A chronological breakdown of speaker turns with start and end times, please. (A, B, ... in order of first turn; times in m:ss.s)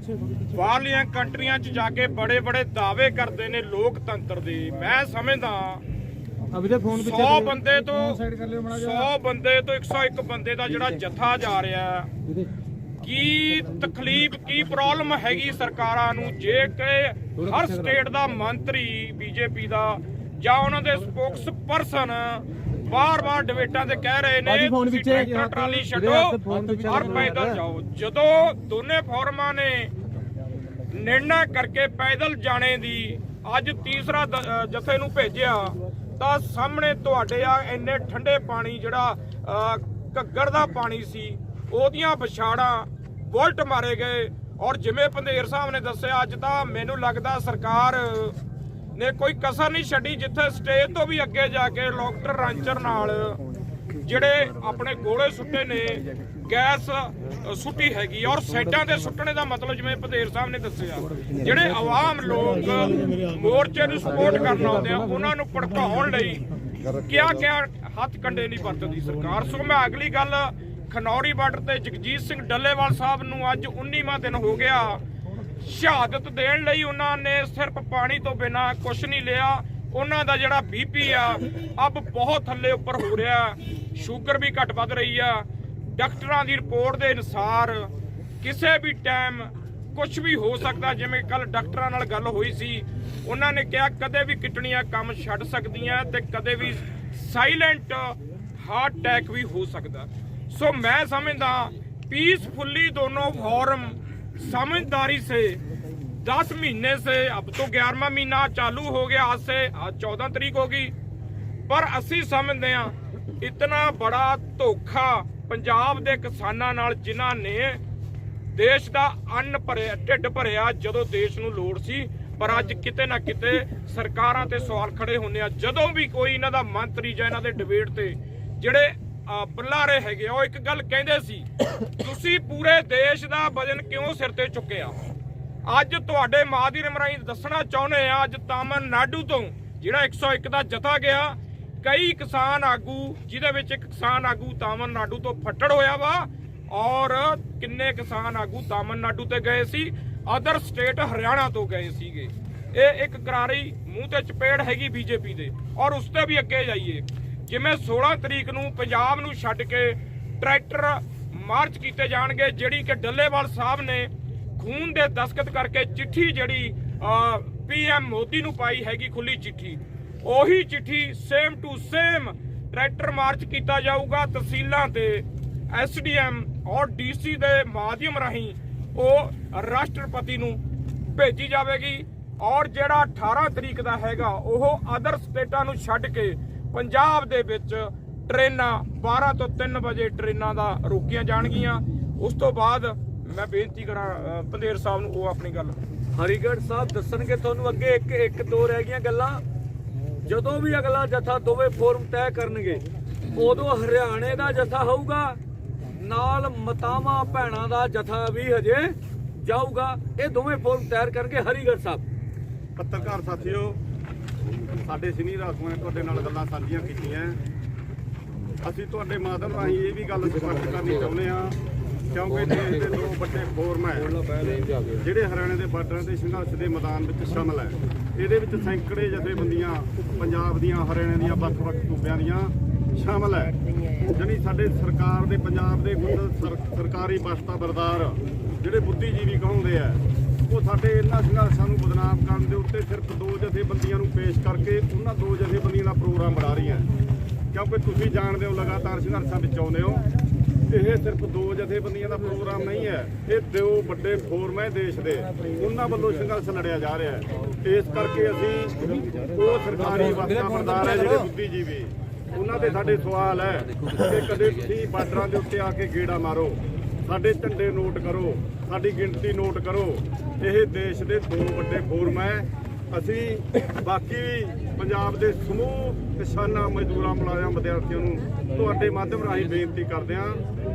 0:00.5-0:05.8 A
0:06.5-0:07.3 B
0:06.8-0:12.1 A
0:08.2-0:08.8 B
0:13.0-0:29.9 A
0:24.5-0:27.4 B
0:30.9-0:48.4 A
0:49.0-0:53.4 A
0:54.0-1:15.0 A
1:15.6-1:27.9 A
1:28.4-1:45.6 A
1:46.2-1:50.9 A
1:51.7-1:57.8 A
1:58.5-2:15.0 A
2:15.6-3:00.6 A
3:01.1-3:15.8 A
3:16.1-3:19.4 C
3:20.2-3:25.4 C
3:25.9-3:32.0 C
3:32.8-3:33.8 D
3:34.8-3:37.4 D
3:38.6-3:41.6 D
3:42.1-3:44.2 D
3:44.0-3:44.8 C
3:45.0-4:06.9 D
4:07.5-4:10.0 D
4:10.7-4:40.4 D